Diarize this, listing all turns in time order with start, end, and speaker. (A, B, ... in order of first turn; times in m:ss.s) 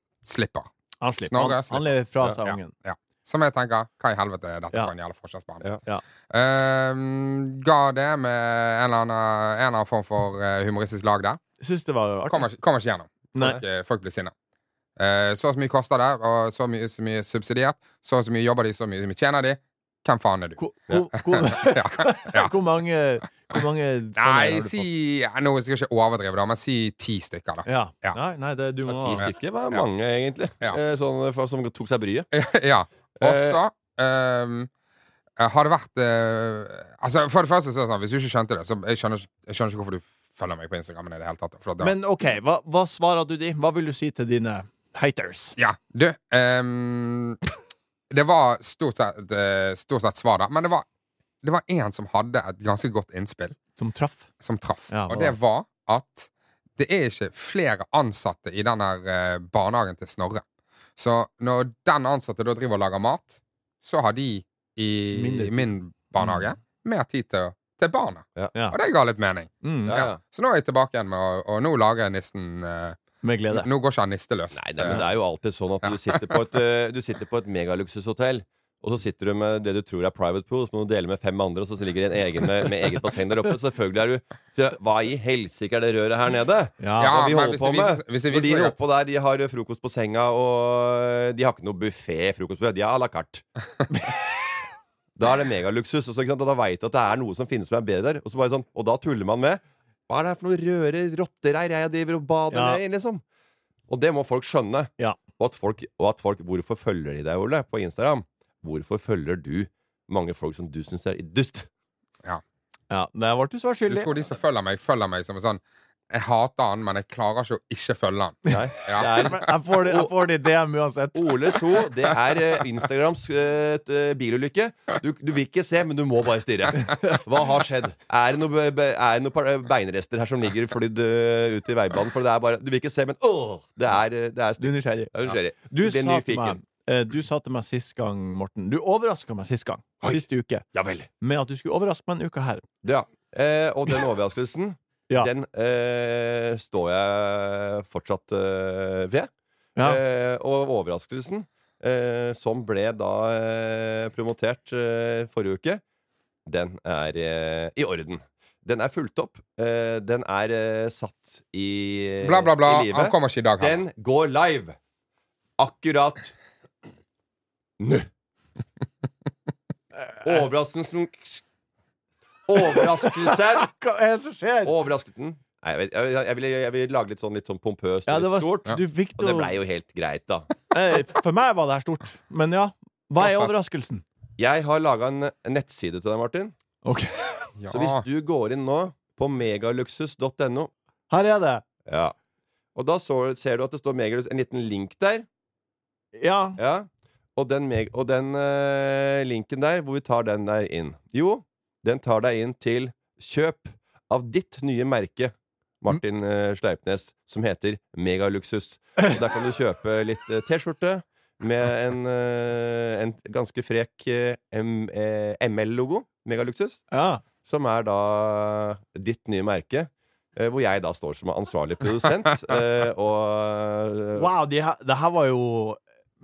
0:00.2-0:00.7 A
0:01.0-0:02.7 B
0:01.2-0:05.7 A
0:06.3-0:11.4 A
0:11.6-0:12.5 B
0:12.3-0:14.3 A
0:13.4-0:13.6 B
0:15.0-0:20.6 A
0:20.6-0:24.9 B
0:21.3-0:22.5 A
0:24.2-0:28.2 A
0:27.7-0:29.3 B
0:28.9-0:32.3 C
0:29.2-0:29.8 A
0:32.3-0:34.7 A
0:33.2-0:33.6 C
0:35.4-0:42.0 A
0:41.8-0:45.6 B
0:45.6-0:47.4 A
0:48.1-0:50.9 A
0:51.4-0:53.6 A
0:53.8-0:54.3 B
0:54.4-1:00.4 A
0:54.9-0:55.4 B
1:01.0-1:13.0 A
1:05.1-1:06.4 B
1:09.6-1:10.0 B
1:09.9-1:10.2 C
1:13.2-1:13.7 B
1:13.5-1:15.0 A
1:14.6-1:33.4 C
1:15.8-1:16.4 A
1:26.8-1:27.2 B
1:27.0-1:28.8 A
1:35.2-1:43.2 C
1:42.5-1:42.8 B
1:43.9-1:51.7 C
1:52.9-1:54.1 B
1:53.9-1:59.1 A
1:58.5-2:00.1 C
1:59.0-2:01.3 B
2:01.2-2:16.6 C
2:14.6-2:15.1 B
2:15.7-2:20.6 B
2:20.7-2:21.1 C
2:21.2-2:22.6 B
2:22.8-2:29.3 C
2:29.8-2:35.8 C
2:36.5-2:44.8 C
2:42.2-2:43.8 A
2:45.6-2:46.4 C
2:47.8-2:48.1 C
2:50.2-2:51.4 C
2:52.5-2:53.7 C
2:52.8-2:54.7 B
2:54.6-2:58.6 C
2:58.1-2:59.5 B
2:59.2-3:00.5 C
3:00.7-3:04.0 B
3:03.2-3:03.5 A
3:04.4-3:06.5 C
3:06.8-3:07.5 B
3:07.6-3:08.0 A
3:07.7-3:10.7 C
3:11.1-3:11.6 B
3:11.9-3:12.2 C
3:12.8-3:15.3 C
3:16.2-3:16.6 B
3:16.6-3:36.8 C
3:36.9-3:37.2 B
3:37.4-3:44.3 C
3:44.2-3:45.8 B